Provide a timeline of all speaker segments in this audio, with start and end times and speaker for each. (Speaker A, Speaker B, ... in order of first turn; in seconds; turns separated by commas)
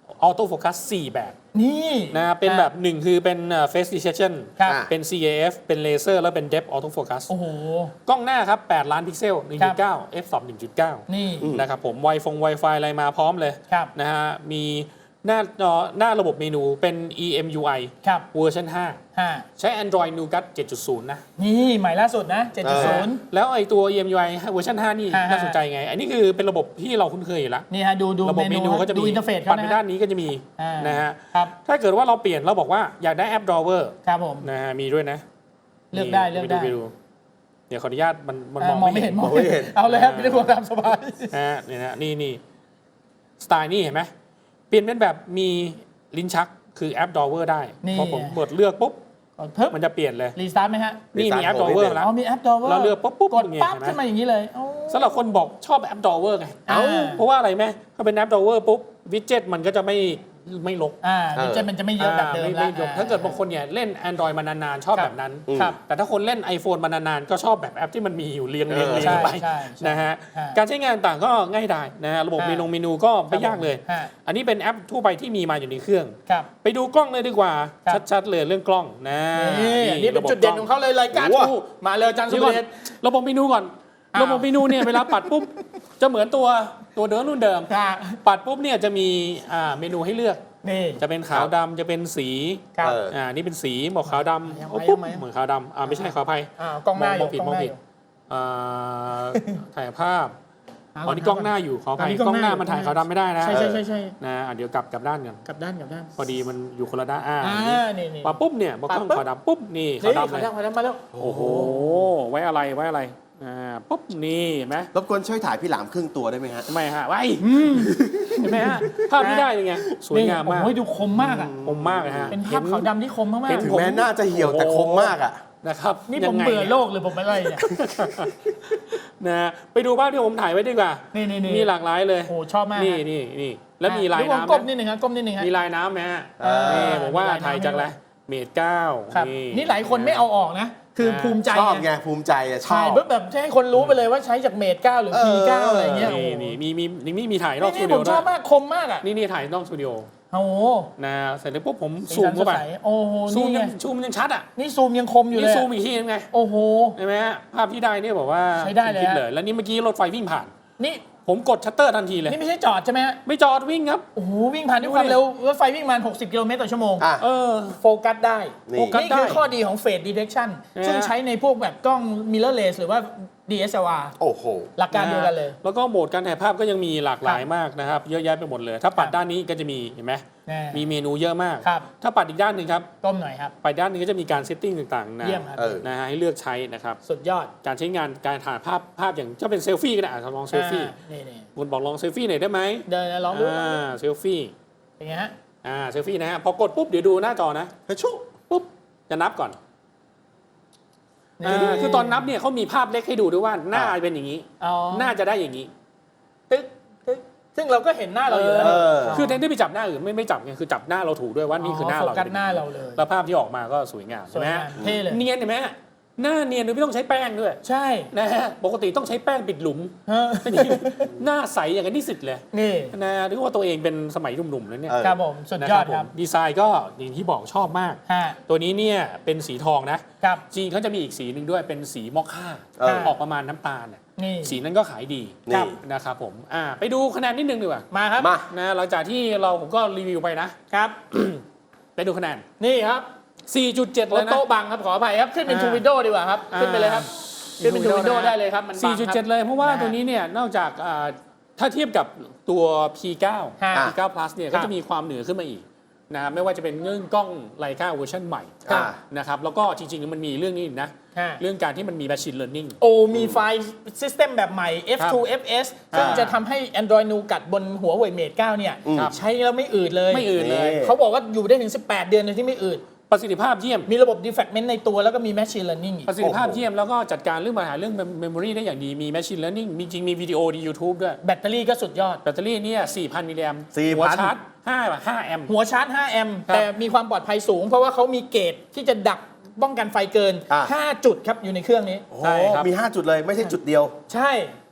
Speaker A: 0.2-1.3, Speaker B: 1.5-2.7, Speaker A: 2.1-7.3, Speaker B: 4.6-4.8, Speaker C: 4.7-4.9, Speaker B: 7.3-7.9, Speaker A: 8.1-19.0, Speaker B: 11.1-11.5, Speaker C: 11.4-11.7, Speaker B: 19.1-19.4, Speaker A: 19.6-21.2, Speaker B: 21.4-23.2, Speaker C: 22.6-23.1, Speaker A: 22.7-27.7, Speaker B: 25.1-25.6, Speaker B: 27.7-29.8, Speaker A: 28.2-35.2, Speaker B: 30.6-31.5, Speaker B: 34.0-34.5, Speaker B: 35.9-36.8, Speaker A: 35.9-36.9, Speaker A: 37.7-40.5, Speaker B: 38.6-41.3, Speaker C: 39.2-39.7, Speaker A: 41.3-42.4, Speaker A: 43.4-44.1, Speaker A: 44.7-49.0, Speaker B: 47.8-48.4, Speaker B: 49.4-49.8, Speaker A: 49.7-50.4, Speaker B: 50.3-51.0, Speaker C: 51.1-52.0, Speaker A: 51.1-52.1, Speaker B: 52.0-55.2, Speaker A: 52.6-54.0, Speaker A: 54.9-61.0, Speaker B: 56.7-57.2, Speaker B: 61.0-63.3, Speaker C: 61.3-61.7, Speaker A: 62.0-81.5, Speaker B: 64.9-65.8, Speaker C: 65.5-65.8, Speaker C: 68.7-69.3, Speaker B: 68.9-70.6, Speaker B: 72.4-72.7, Speaker B: 73.3-74.1, Speaker B: 79.3-82.7, Speaker C: 81.2-81.5, Speaker A: 82.3-87.7, Speaker B: 84.1-85.4, Speaker B: 87.7-88.2, Speaker A: 88.2-90.4, Speaker B: 90.6-91.0, Speaker A: 91.0-97.7, Speaker C: 92.8-93.1, Speaker B: 94.0-95.2, Speaker B: 95.8-97.8, Speaker A: 98.3-100.3, Speaker B: 99.3-99.6, Speaker B: 100.9-104.2, Speaker A: 101.0-103.7, Speaker C: 103.5-103.8, Speaker A: 104.2-105.4, Speaker B: 105.4-106.1, Speaker A: 106.2-110.5, Speaker B: 107.4-108.3, Speaker B: 108.9-109.2, Speaker B: 110.0-111.1, Speaker C: 111.1-112.0, Speaker A: 111.1-114.9, Speaker C: 114.9-116.7, Speaker A: 116.7-120.8, Speaker B: 117.4-119.5, Speaker C: 117.8-119.0, Speaker B: 120.1-121.5, Speaker C: 121.2-122.3, Speaker A: 121.6-122.9, Speaker B: 122.3-123.8, Speaker A: 123.5-126.8, Speaker C: 123.6-125.4, Speaker B: 126.1-127.6, Speaker A: 127.5-134.7, Speaker B: 131.1-131.7, Speaker B: 132.2-133.0, Speaker B: 133.8-135.5, Speaker A: 135.4-140.2, Speaker C: 136.4-137.0, Speaker B: 136.4-137.9, Speaker B: 139.1-141.8, Speaker A: 141.0-141.4, Speaker C: 141.5-143.0, Speaker B: 142.6-146.6, Speaker C: 145.1-146.1, Speaker A: 145.9-148.3, Speaker B: 147.6-149.1, Speaker A: 149.0-150.1, Speaker B: 150.3-150.9, Speaker A: 151.0-152.6, Speaker B: 152.1-153.7, Speaker A: 153.3-154.5, Speaker B: 154.6-155.7, Speaker A: 155.3-156.3, Speaker B: 156.3-157.0, Speaker A: 157.0-160.5, Speaker B: 158.5-159.2, Speaker B: 160.8-161.1, Speaker A: 161.2-162.4, Speaker B: 162.3-163.2, Speaker A: 163.2-164.1, Speaker B: 164.1-167.1, Speaker A: 164.8-165.2, Speaker C: 167.0-167.2, Speaker A: 167.2-167.8, Speaker B: 167.7-174.1, Speaker C: 168.7-169.0, Speaker A: 168.8-169.4, Speaker A: 170.7-171.1, Speaker C: 174.2-174.7, Speaker B: 174.8-175.6, Speaker A: 174.9-182.9, Speaker B: 180.4-180.8, Speaker B: 181.6-181.9, Speaker B: 183.0-183.5, Speaker A: 183.6-187.0, Speaker B: 185.2-185.8, Speaker C: 185.6-185.8, Speaker B: 187.0-187.5, Speaker A: 187.6-190.9, Speaker B: 190.5-191.4, Speaker A: 191.6-194.5, Speaker B: 192.9-193.8, Speaker B: 195.0-195.3, Speaker A: 195.6-197.7, Speaker C: 197.9-198.4, Speaker A: 198.5-199.6, Speaker B: 201.4-202.3, Speaker A: 201.4-205.7, Speaker B: 204.6-205.1, Speaker B: 206.5-209.4, Speaker A: 208.3-225.0, Speaker C: 208.6-209.2, Speaker B: 211.6-213.0, Speaker B: 214.3-215.2, Speaker B: 217.6-218.1, Speaker B: 220.1-221.1, Speaker B: 222.5-222.9, Speaker C: 224.9-225.2, Speaker B: 225.0-226.1, Speaker A: 225.6-237.8, Speaker B: 228.1-228.4, Speaker C: 232.8-233.1, Speaker B: 232.8-233.1, Speaker B: 234.2-234.6, Speaker C: 235.5-235.8, Speaker B: 235.5-235.7, Speaker B: 237.9-238.3, Speaker C: 238.2-238.5, Speaker A: 238.5-240.5, Speaker B: 240.7-241.0, Speaker A: 241.1-241.4, Speaker A: 241.9-242.4, Speaker B: 242.6-243.1, Speaker A: 243.5-244.4, Speaker B: 244.1-249.9, Speaker A: 245.5-245.8, Speaker A: 246.5-262.8, Speaker B: 253.6-253.9, Speaker C: 258.6-259.0, Speaker B: 261.1-261.4, Speaker B: 262.8-272.8, Speaker C: 263.1-263.4, Speaker A: 265.0-265.2, Speaker A: 265.9-266.4, Speaker C: 265.9-266.2, Speaker C: 268.9-269.1, Speaker A: 268.9-269.2, Speaker A: 270.1-270.8, Speaker C: 270.3-270.9, Speaker A: 273.1-273.9, Speaker B: 273.9-276.1, Speaker A: 276.1-281.2, Speaker C: 276.2-276.6, Speaker B: 281.2-282.2, Speaker A: 282.2-285.5, Speaker C: 283.7-284.3, Speaker B: 285.5-292.0, Speaker C: 292.1-293.9, Speaker A: 292.2-292.7, Speaker B: 294.1-294.5